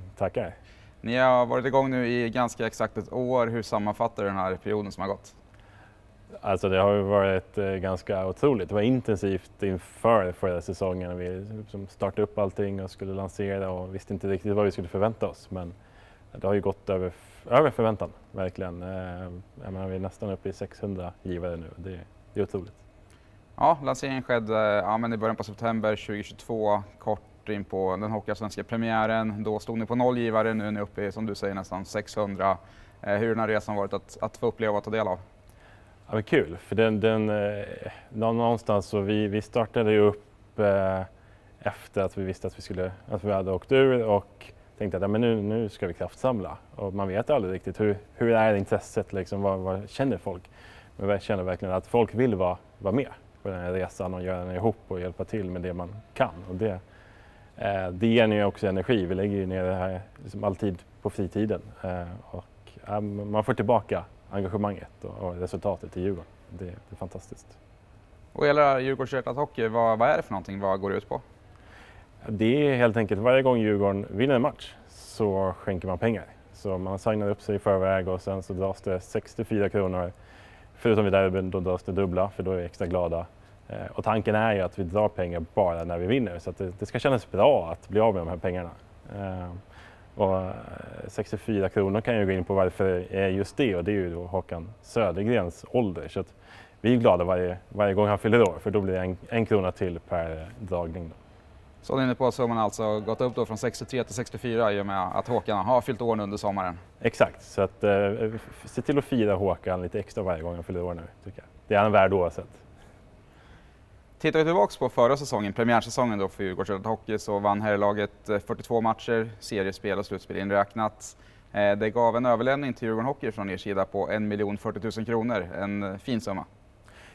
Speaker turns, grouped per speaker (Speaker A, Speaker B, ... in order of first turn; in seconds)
Speaker A: 0.2-0.6, 6.4-15.8, 16.3-22.8, 36.1-41.1, 41.6-56.8, 57.6-67.6, 72.2-80.1, 80.8-89.6, 90.2-101.2, 107.0-112.6
Speaker B: 1.0-5.4, 23.6-35.2, 68.3-71.2, 101.8-106.8, 114.2-126.5